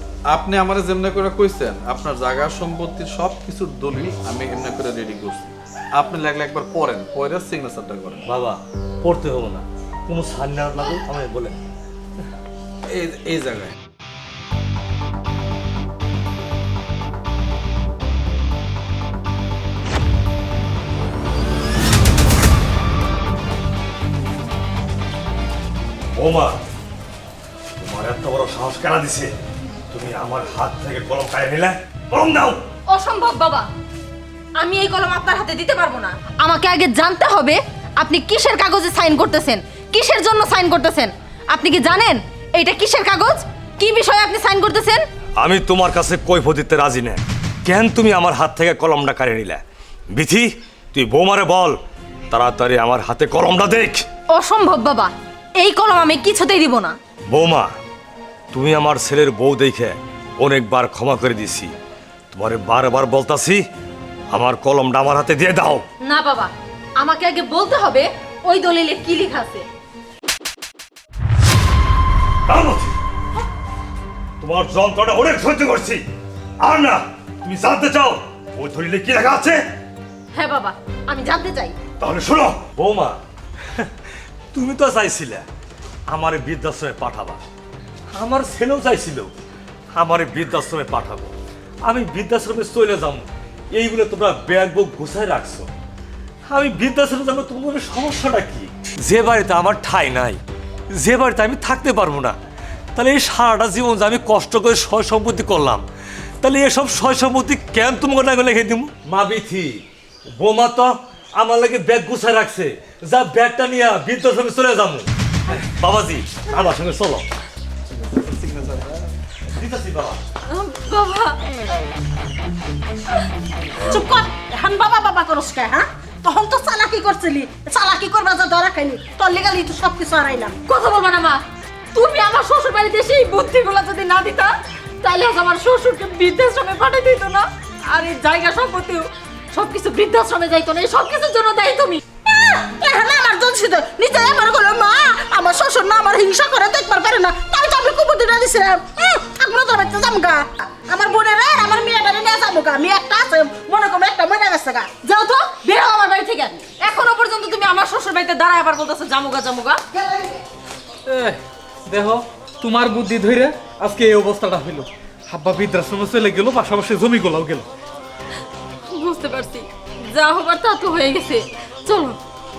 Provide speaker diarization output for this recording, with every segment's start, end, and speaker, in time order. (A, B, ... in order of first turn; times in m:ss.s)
0:00.3-0:08.2 A
0:08.3-0:11.6 B
0:12.9-0:13.7 A
0:26.2-0:26.6 B
0:27.8-0:29.3 B
0:29.9-0:32.6 B
0:32.9-0:33.7 C
0:34.6-0:45.0 C
0:45.4-0:51.8 B
0:52.3-0:54.0 B
0:54.3-0:57.0 C
0:57.3-0:57.7 B
0:58.5-1:01.7 B
1:02.3-1:03.6 B
1:04.3-1:05.8 B
1:06.0-1:09.7 C
1:12.5-1:13.0 B
1:14.4-1:16.0 B
1:16.6-1:19.6 B
1:20.3-1:21.8 C
1:22.0-1:23.2 B
1:24.5-1:25.5 B
1:26.1-1:27.4 B
1:28.2-1:29.3 B
1:30.0-1:31.3 B
1:31.9-1:35.7 B
1:36.5-1:40.4 B
1:40.9-1:42.4 B
1:43.0-1:45.8 B
1:46.4-1:49.7 B
1:50.4-1:57.2 B
1:58.0-1:59.1 A
1:59.5-2:00.2 B
2:00.5-2:01.4 C
2:03.9-2:10.6 D
2:10.7-2:22.0 C
2:22.3-2:35.0 D
2:35.0-2:39.8 C
2:40.0-2:40.4 D
2:41.1-2:47.7 E
2:48.9-2:52.2 C